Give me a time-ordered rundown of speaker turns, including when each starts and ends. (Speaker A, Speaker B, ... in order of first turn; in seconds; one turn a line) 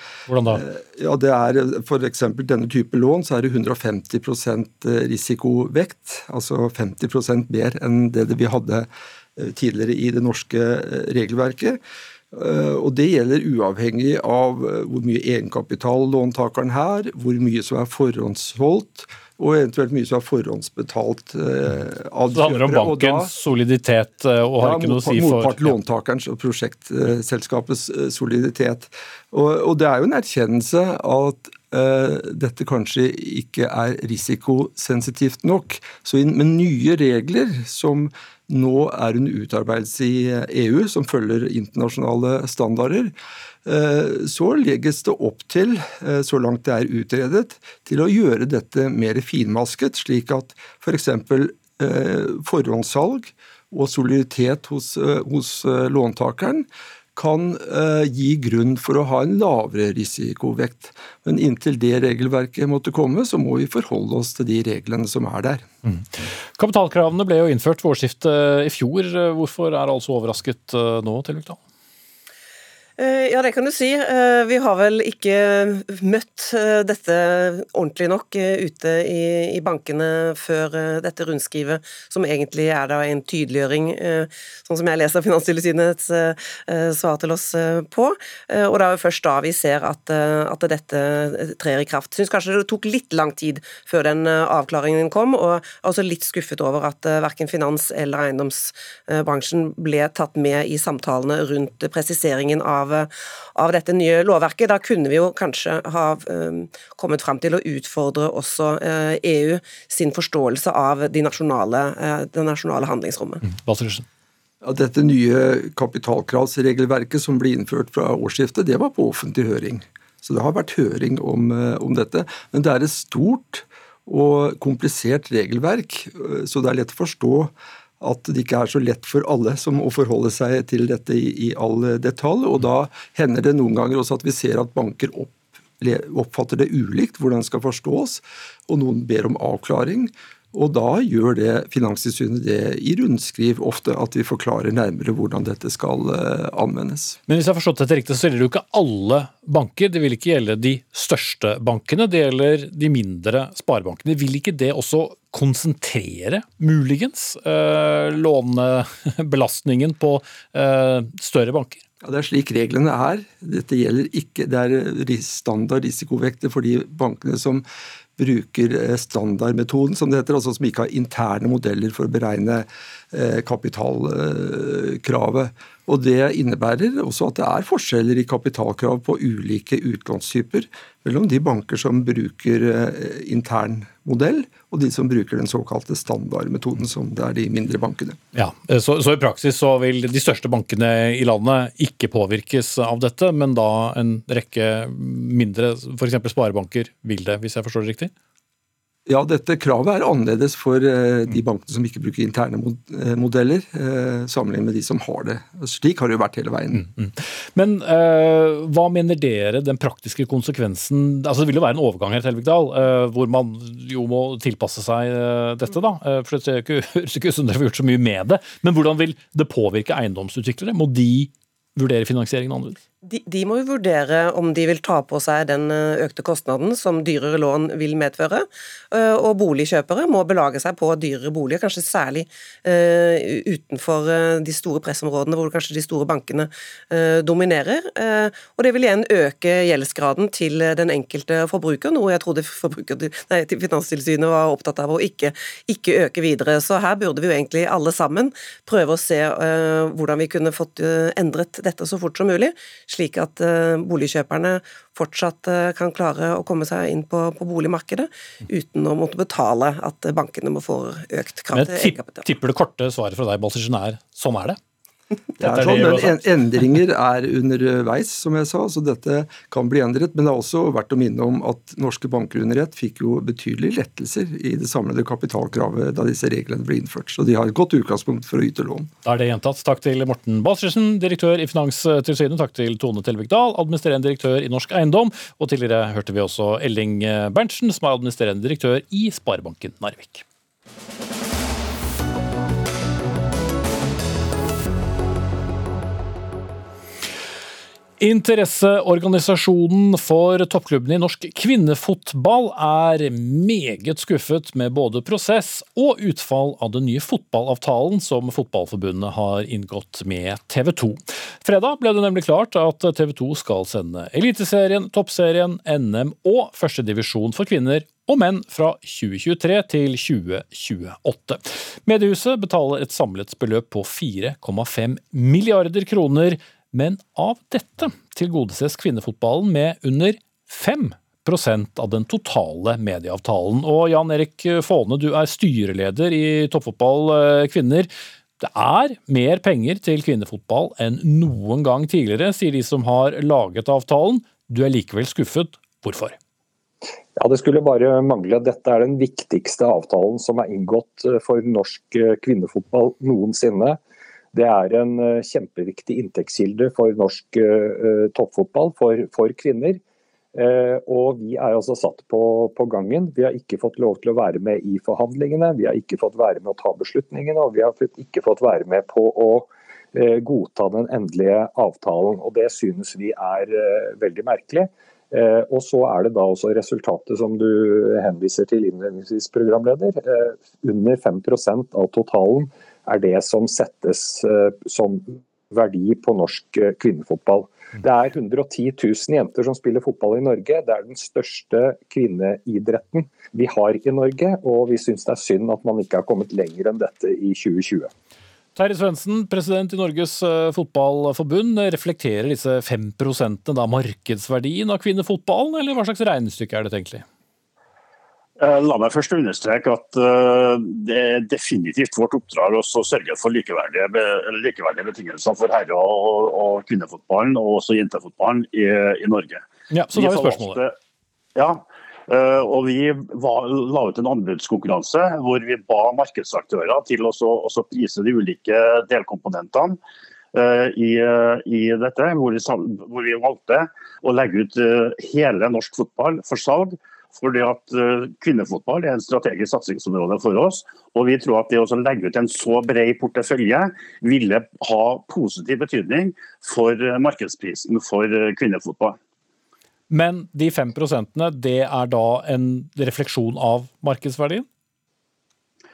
Speaker A: 0.3-0.6
Speaker B: 0.5-11.8
Speaker B: 12.3-23.3
Speaker A: 22.3-25.7
Speaker B: 24.6-43.1
Speaker B: 43.7-65.6
Speaker A: 65.9-71.6
Speaker C: 73.0-113.4
Speaker A: 113.5-114.0
Speaker B: 114.6-147.2
Speaker A: 147.3-161.8
Speaker B: 162.0-167.6
Speaker B: 168.2-188.2
Speaker A: 188.3-198.1
Speaker B: 199.1-206.8
Speaker A: 206.7-222.8
Speaker C: 223.0-262.3
Speaker A: 261.5-264.6
Speaker B: 265.4-278.9
Speaker A: 265.4-266.3
Speaker A: 279.1-290.2
Speaker A: 298.0-346.2
Speaker D: 347.2-353.8
Speaker D: 354.3-359.8
Speaker D: 360.4-397.9
Speaker A: 398.6-407.1
Speaker E: 408.4-420.7
Speaker A: 419.7-420.6
Speaker E: 421.4-429.8
Speaker E: 430.3-449.0
Speaker A: 449.9-454.5